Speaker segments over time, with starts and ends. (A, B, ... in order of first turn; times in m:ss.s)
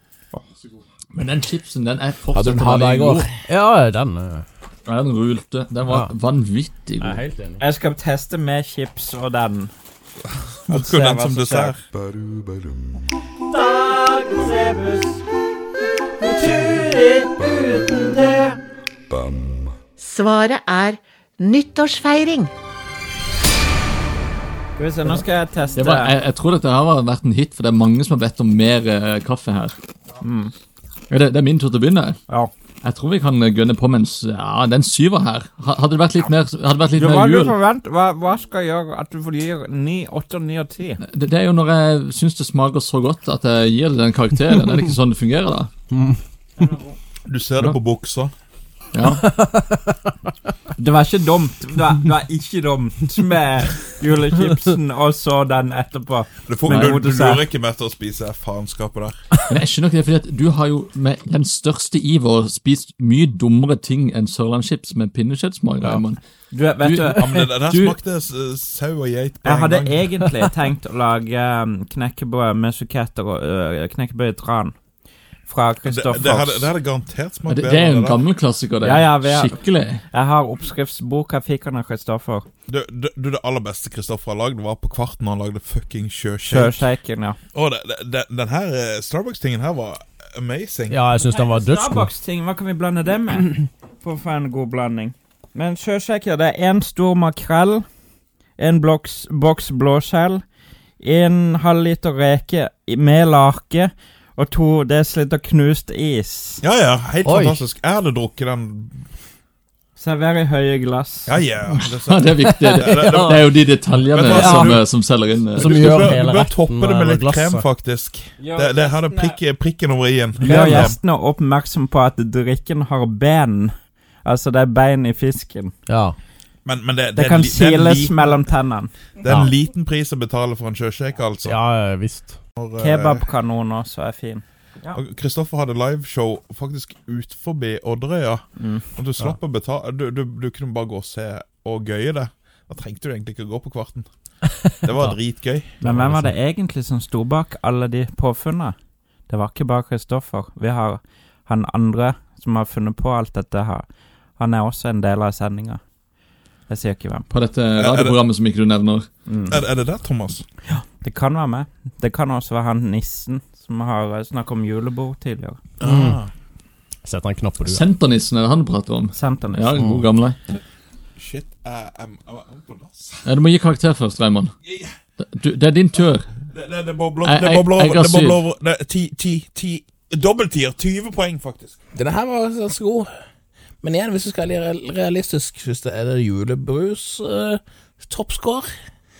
0:01.1-0:03.3 A
0:02.3-0:03.3 B
0:03.5-0:04.4 C
0:04.9-0:07.2 A
0:07.0-0:07.6 C
0:07.6-0:09.7 D
0:10.6-0:11.9 E
0:10.7-0:11.8 D
0:13.5-0:15.2 D
0:16.2-0:18.6 D
0:20.0-0:22.5 F
0:24.8-0:26.1 D
0:25.8-0:29.8 A
0:30.2-0:30.5 D
0:31.1-0:32.2 A
0:32.8-0:37.6 A
0:37.0-0:41.0 D
0:41.0-0:45.7 A
0:45.9-0:46.2 C
0:46.6-0:46.9 D
0:47.3-0:48.3 E
0:48.9-0:49.2 A
0:49.2-0:49.9 C
0:50.8-0:57.4 D
0:56.5-0:59.2 E
0:59.5-1:06.2 A
1:06.5-1:07.2 D
1:06.8-1:07.9 A
1:07.1-1:10.1 E
1:09.4-1:14.8 D
1:15.4-1:16.7 D
1:15.8-1:18.2 E
1:17.5-1:20.0 A
1:18.8-1:19.6 D
1:20.1-1:22.5 D
1:22.7-1:26.9 E
1:26.4-1:27.4 D
1:27.5-1:31.0 E
1:30.9-1:32.1 C
1:31.2-1:37.9 D
1:38.5-1:40.5 D
1:41.0-1:46.6 D
1:46.6-1:49.1 E
1:47.2-1:47.6 C
1:50.0-1:51.3 D
1:51.3-2:01.0 E
1:51.7-1:55.9 A
1:54.3-1:54.8 C
1:55.6-1:57.6 C
1:58.4-1:59.4 D
2:00.4-2:05.7 D
2:00.4-2:01.0 C
2:05.9-2:06.2 C
2:06.6-2:08.5 E
2:07.1-2:09.0 D
2:09.2-2:11.7 E
2:09.3-2:09.5 C
2:11.4-2:12.4 C
2:12.6-2:13.3 E
2:12.8-2:15.0 D
2:14.9-2:25.8 E
2:18.6-2:18.9 D
2:24.6-2:25.2 C
2:25.8-2:26.3 A
2:25.8-2:36.0 D
2:36.7-2:37.3 D
2:37.3-2:39.1 A
2:37.7-2:38.2 E
2:39.3-2:39.6 D
2:39.5-2:40.4 E
2:40.6-2:45.6 D
2:45.8-2:46.3 E
2:45.8-2:46.2 C
2:47.0-2:47.8 C
2:47.6-2:50.4 A
2:49.1-2:49.8 D
2:49.8-2:50.0 C
2:51.2-2:53.3 E
2:53.3-2:54.5 A
2:54.7-2:55.0 E
2:55.2-2:56.3 A
2:56.5-3:01.8 E
2:57.2-2:58.4 A
3:01.9-3:03.1 B
3:03.8-3:08.7 B